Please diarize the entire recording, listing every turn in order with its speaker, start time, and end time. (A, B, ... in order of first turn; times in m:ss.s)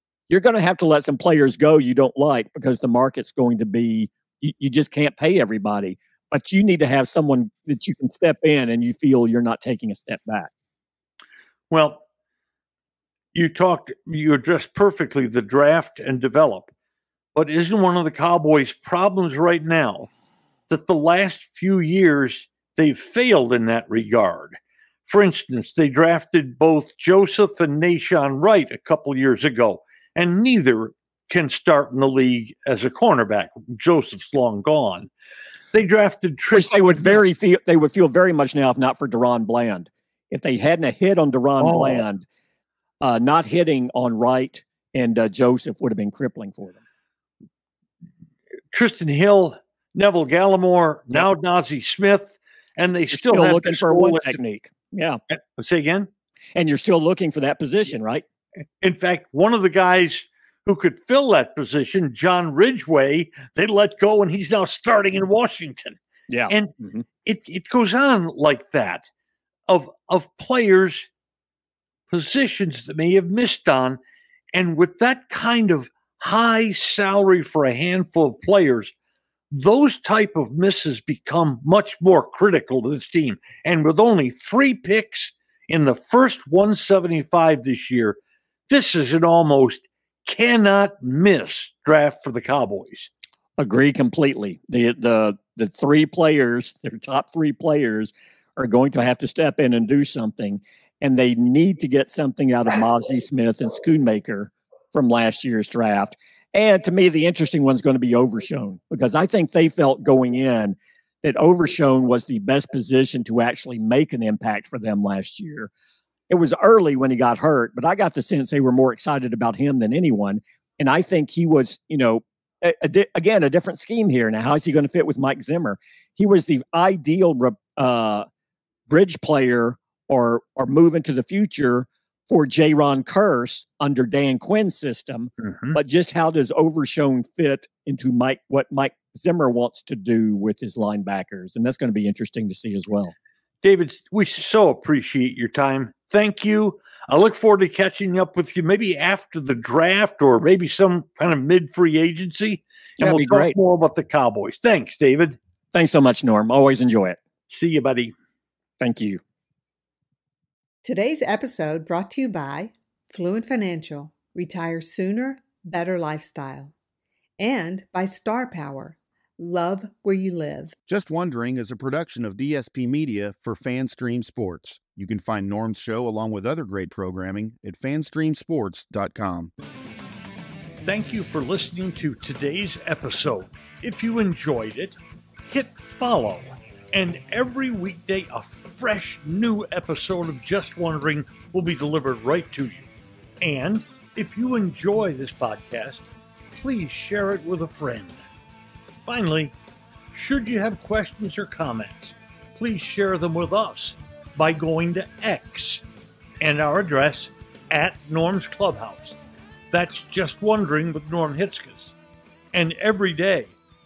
0:00.3-0:10.5 A
0:11.7-0:12.0 B
0:13.3-0:16.7 B
0:17.4-0:20.1 B
0:20.7-0:35.1 B
0:35.7-0:37.2 B
0:36.5-0:42.2 A
0:41.6-0:42.0 B
0:43.0-0:46.8 A
0:48.7-0:54.4 B
0:53.1-0:55.2 A
0:55.3-0:56.1 B
0:56.6-0:58.2 A
0:58.8-1:06.7 B
1:06.3-1:07.0 A
1:07.2-1:09.1 B
1:09.7-1:11.1 B
1:12.1-1:14.0 B
1:14.5-1:18.9 B
1:19.5-1:28.2 B
1:28.7-1:33.1 B
1:33.6-1:55.7 A
1:56.3-2:08.2 A
2:08.9-2:23.1 A
2:23.6-2:35.4 B
2:33.0-2:33.6 A
2:35.7-2:37.2 A
2:37.5-2:38.1 B
2:38.8-2:39.2 A
2:40.8-2:46.7 C
2:47.4-2:50.7 C
2:50.9-2:59.5 D
3:00.8-3:05.0 B
3:05.5-3:12.9 B
3:13.4-3:18.2 B
3:19.0-3:19.5 B
3:20.1-3:25.8 B
3:26.4-3:29.2 B
3:29.7-3:32.0 B
3:32.5-3:33.6 B